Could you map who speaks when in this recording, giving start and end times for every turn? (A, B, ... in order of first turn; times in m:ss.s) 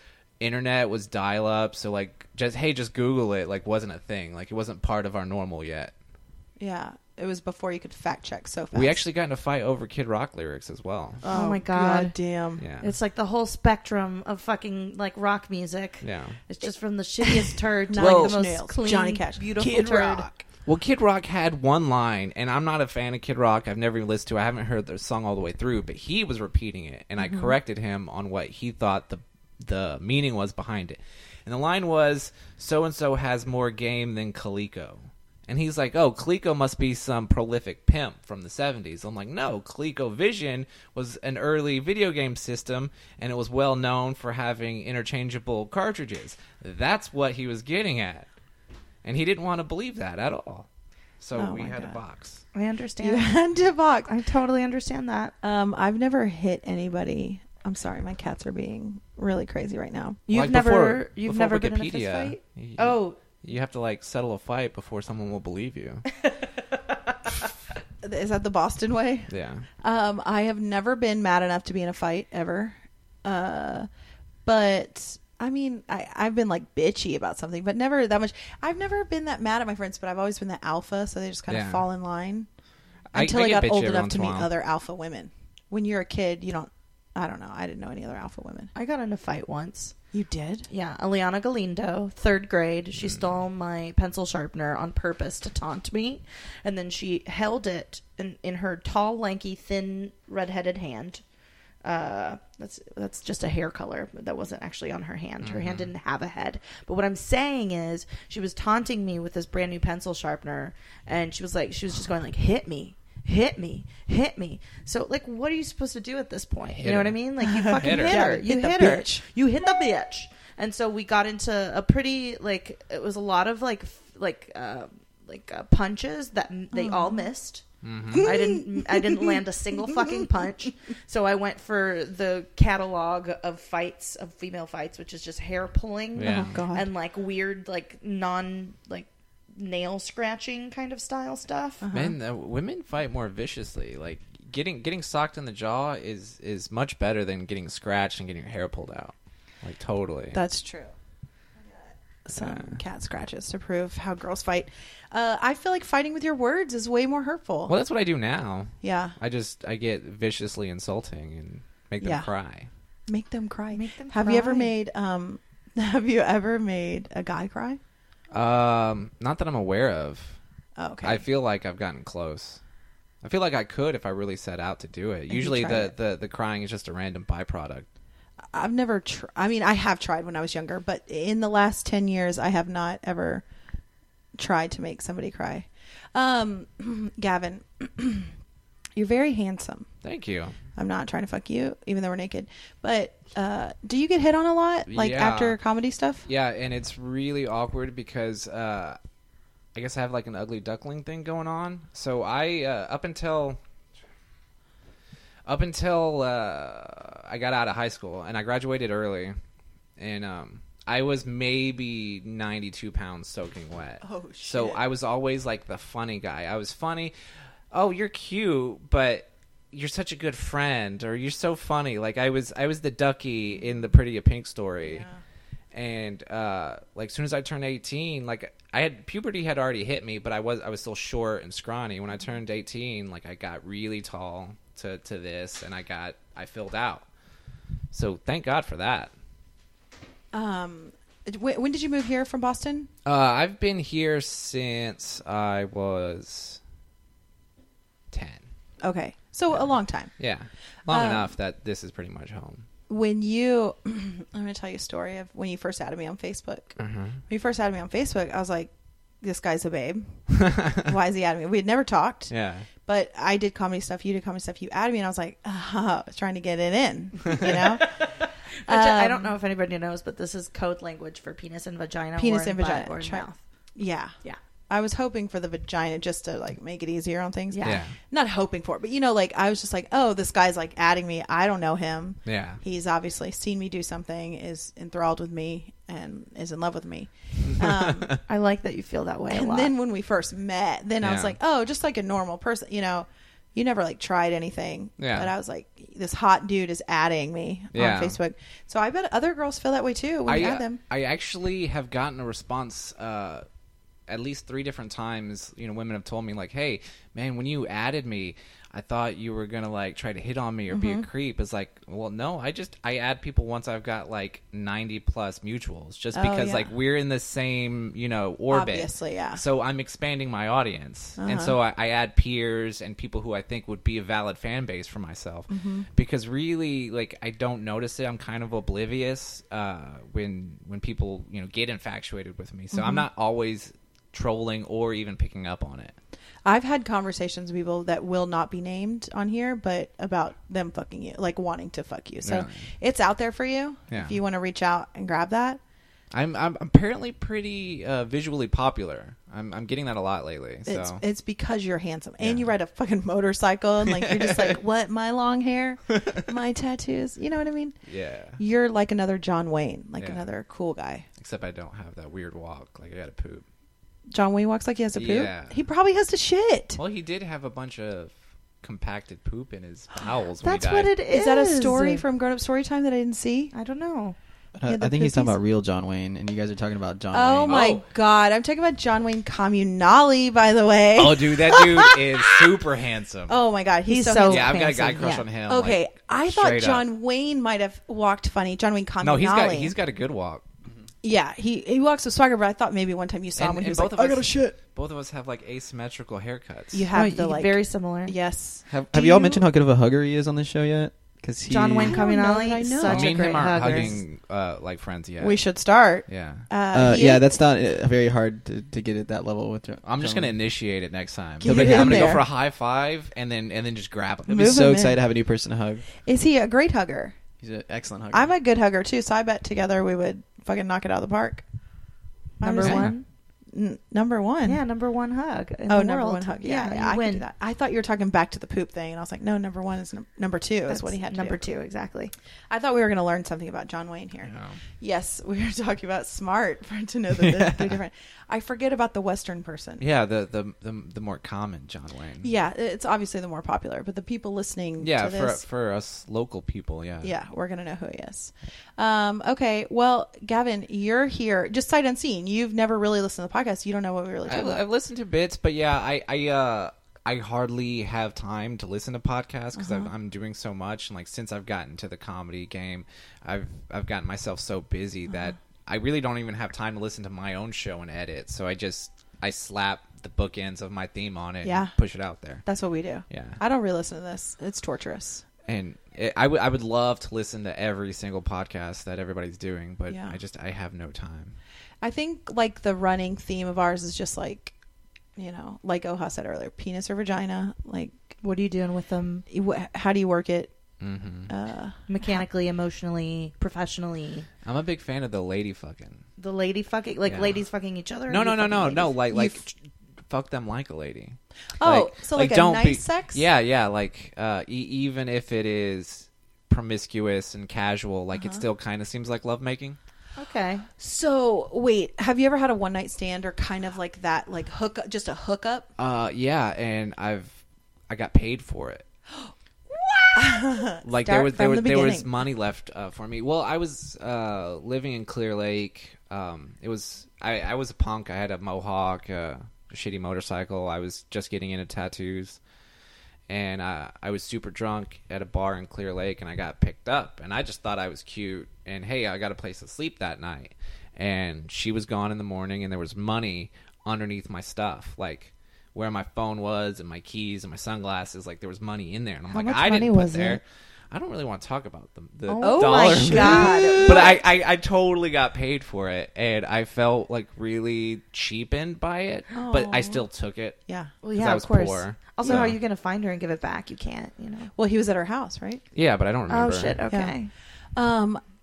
0:00.4-0:05.9 A
0:06.6-0:09.0 B
0:08.7-0:11.2 A
0:11.2-0:12.1 C
0:11.2-0:12.6 B
0:12.6-0:12.9 A
0:12.8-0:20.3 C
0:16.0-0:16.4 A
0:17.2-0:20.4 B
0:18.0-0:18.4 A
0:20.7-0:48.3 A
0:27.2-0:27.5 B
0:49.0-0:50.7 A
0:51.2-0:52.4 A
0:51.4-0:52.0 B
0:52.5-0:53.4 C
0:53.0-0:54.1 B
0:54.1-0:55.3 C
0:55.4-1:00.2 B
1:00.3-1:03.2 C
1:00.3-1:06.1 A
1:08.0-1:09.3 B
1:09.3-1:09.7 A
1:09.8-1:13.9 B
1:14.4-1:22.5 B
1:21.5-1:21.9 A
1:23.1-1:24.5 A
1:23.1-1:28.7 B
1:28.8-1:29.9 C
1:30.1-1:30.7 B
1:30.7-1:41.2 C
1:41.8-2:07.6 C
1:45.4-1:45.9 A
1:56.7-1:58.3 A
1:57.4-1:59.2 B
2:06.7-2:07.3 B
2:07.8-2:08.3 A
2:08.1-2:10.4 B
2:08.2-2:21.8 C
2:16.2-2:16.6 A
2:16.2-2:16.9 B
2:21.8-2:22.2 B
2:21.9-2:30.4 A
2:30.3-2:30.9 B
2:31.7-2:37.7 B
2:32.4-2:32.8 A
2:37.7-2:42.7 A
2:38.8-2:39.2 B
2:42.0-2:42.3 B
2:43.1-2:47.8 B
2:43.7-2:44.7 C
2:48.3-2:50.4 A
2:50.8-2:51.2 B
2:51.0-2:52.6 A
2:53.2-2:57.9 A
2:55.3-2:55.9 B
2:58.5-3:03.4 B
3:04.4-3:08.3 B
3:09.0-3:09.9 B
3:10.0-3:10.6 A
3:10.8-3:16.3 B
3:14.9-3:15.6 A
3:16.3-3:19.0 A
3:19.8-3:23.6 A
3:25.5-3:29.3 A
3:30.0-3:37.1 A
3:34.0-3:34.8 B
3:37.7-3:45.0 A
3:44.8-3:45.2 B
3:45.7-3:57.0 A
3:57.9-3:59.1 A
4:00.3-4:02.9 B
4:03.0-4:06.6 A
4:08.1-4:08.4 A
4:08.8-4:10.1 B
4:09.5-4:12.7 A
4:10.9-4:11.3 B
4:12.9-4:16.8 B
4:16.8-4:17.2 A
4:17.3-4:20.2 B
4:20.3-4:20.9 A
4:20.7-4:22.3 B
4:22.3-4:22.7 A
4:22.8-4:27.9 B
4:27.6-4:33.4 C
4:28.7-4:29.4 B
4:32.2-4:34.1 B
4:34.7-4:48.1 B
4:37.5-4:37.8 C
4:37.6-4:38.0 A
4:42.3-4:42.6 A
4:47.4-4:48.2 A
4:48.3-4:49.7 C
4:49.3-5:00.8 B
4:51.0-4:51.4 A
4:55.0-4:55.3 A
4:57.7-4:58.2 A
5:00.3-5:03.4 A
5:04.1-5:36.0 A
5:10.7-5:11.1 B
5:16.1-5:16.7 B
5:18.5-5:19.4 B
5:21.2-5:21.6 B
5:25.5-5:25.9 B
5:32.7-5:33.1 B
5:36.4-5:45.6 B
5:42.2-5:42.6 A
5:43.9-5:44.2 A
5:46.1-5:51.0 A
5:50.7-5:57.8 B
5:52.2-5:52.5 A
5:53.9-5:54.5 A
5:57.9-5:58.4 A
5:58.4-6:01.1 B
6:01.2-6:03.4 A
6:04.1-6:06.8 B
6:05.0-6:05.6 A
6:06.8-6:10.9 A
6:10.4-6:12.0 C
6:11.1-6:13.5 B
6:13.5-6:14.2 C
6:14.6-6:17.6 D
6:14.7-6:15.4 B
6:17.1-6:22.4 B
6:17.4-6:17.8 A
6:21.0-6:23.4 A
6:23.3-6:24.6 B
6:23.9-6:25.2 C
6:24.3-6:26.8 A
6:25.5-6:29.7 B
6:29.0-6:30.4 A
6:31.0-6:34.6 B
6:33.4-6:36.9 A
6:36.7-6:39.4 B
6:36.9-6:38.2 C
6:38.7-6:42.1 D
6:41.5-6:44.0 C
6:41.8-6:44.0 B
6:42.8-6:45.4 A
6:45.2-6:47.3 B
6:46.1-6:46.5 A
6:46.7-6:50.3 D
6:49.8-6:54.6 A
6:51.4-6:52.3 B
6:51.4-6:52.2 D
6:54.3-6:55.0 B
6:54.3-6:55.8 D
6:56.0-6:57.2 B
6:57.4-6:58.3 D
6:58.1-7:01.4 B
7:02.4-7:03.0 C
7:02.4-7:03.0 B
7:02.6-7:02.9 A
7:03.5-7:04.6 B
7:04.5-7:07.2 C
7:05.7-7:11.5 B
7:10.7-7:12.1 C
7:12.5-7:19.8 B
7:14.2-7:14.6 A
7:17.1-7:17.8 A
7:19.8-7:22.3 A
7:22.2-7:25.4 B
7:24.8-7:27.1 A
7:27.0-7:34.6 B
7:34.3-7:52.4 A
7:39.6-7:39.9 B
7:51.4-7:51.7 B
7:52.4-7:55.2 B
7:53.1-7:53.4 A
7:55.5-8:01.4 A
7:59.9-8:00.2 B
8:01.8-8:04.5 B
8:05.2-8:08.2 B
8:08.2-8:09.2 C
8:09.3-8:10.5 B
8:10.8-8:11.3 A
8:11.3-8:12.2 B
8:11.9-8:14.3 C
8:14.4-8:16.0 A
8:16.2-8:18.9 C
8:17.1-8:17.4 A
8:18.1-8:19.6 A
8:19.1-8:19.4 B
8:20.1-8:29.8 A
8:21.6-8:23.2 B
8:28.1-8:28.4 B
8:30.2-8:30.7 C
8:30.8-8:35.7 B
8:35.8-8:38.8 A
8:40.1-8:42.1 B
8:40.8-8:52.4 A
8:53.3-9:20.6 A
9:09.3-9:10.4 C
9:12.3-9:14.1 C
9:12.4-9:14.2 B
9:19.3-9:20.0 B
9:21.0-9:24.5 C
9:21.1-9:22.6 A
9:22.2-9:22.6 B
9:24.6-9:25.6 B
9:25.7-9:26.8 A
9:26.3-9:27.3 C
9:26.9-9:27.2 B
9:27.8-9:28.2 B